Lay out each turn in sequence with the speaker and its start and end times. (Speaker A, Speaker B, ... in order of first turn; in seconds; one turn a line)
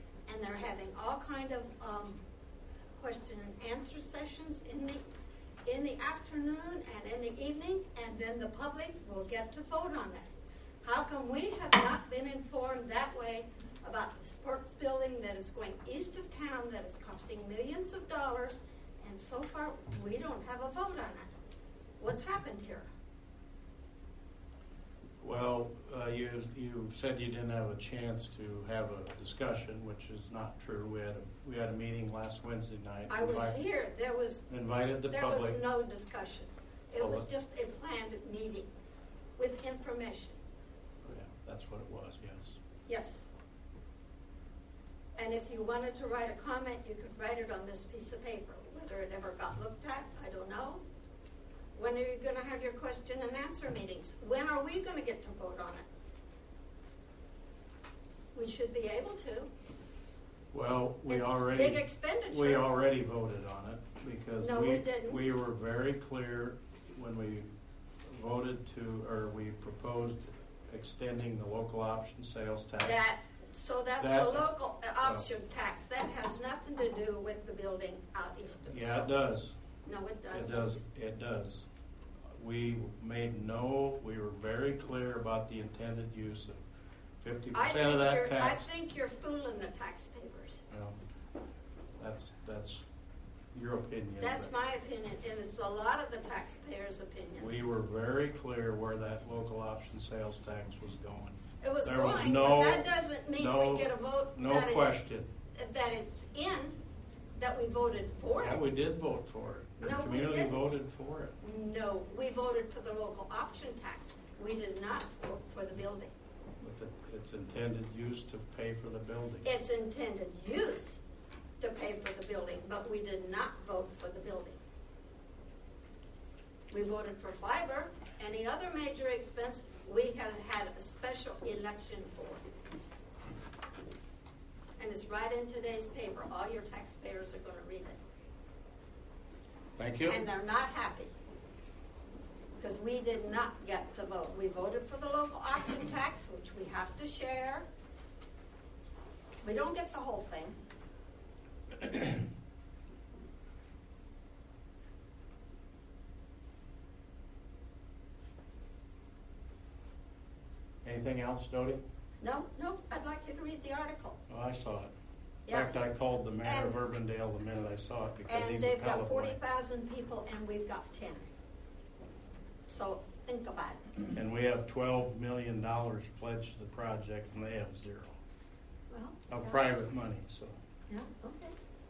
Speaker A: 0.3-2.2
Speaker A: 3.0-5.0
Speaker A: 5.7-10.3
Speaker A: 10.8-21.3
Speaker A: 22.0-22.9
Speaker B: 25.2-33.6
Speaker A: 33.1-34.5
Speaker B: 34.5-35.6
Speaker A: 35.1-38.7
Speaker B: 37.0-37.3
Speaker A: 39.4-40.4
Speaker B: 41.0-42.6
Speaker A: 42.9-43.3
Speaker A: 45.2-50.8
Speaker A: 51.7-55.9
Speaker A: 58.3-59.5
Speaker B: 60.5-67.5
Speaker A: 61.1-62.7
Speaker A: 64.4-65.3
Speaker B: 68.0-73.0
Speaker A: 72.8-79.1
Speaker B: 74.0-74.4
Speaker B: 78.7-79.5
Speaker A: 79.8-80.8
Speaker B: 80.3-81.7
Speaker B: 82.3-86.6
Speaker B: 87.2-88.7
Speaker A: 87.5-90.6
Speaker B: 90.7-91.0
Speaker B: 92.0-92.9
Speaker B: 93.5-94.5
Speaker A: 94.2-97.7
Speaker B: 97.4-105.3
Speaker A: 101.6-105.0
Speaker A: 105.5-106.8
Speaker A: 107.4-108.7
Speaker B: 108.4-111.4
Speaker A: 109.8-110.8
Speaker A: 111.4-116.1
Speaker B: 116.6-119.5
Speaker A: 119.4-121.0
Speaker A: 121.6-124.6
Speaker A: 126.7-132.4
Speaker A: 134.8-138.0
Speaker B: 139.8-140.2
Speaker A: 140.1-141.1
Speaker A: 142.6-147.7
Speaker A: 149.4-150.6
Speaker B: 160.8-161.8
Speaker A: 162.2-164.2
Speaker B: 164.3-164.9
Speaker A: 165.5-165.7
Speaker B: 165.5-169.4
Speaker A: 166.4-166.8
Speaker A: 168.3-171.3
Speaker A: 172.7-173.9
Speaker B: 174.1-178.2
Speaker A: 178.9-179.6
Speaker B: 179.3-180.6
Speaker A: 180.9-181.6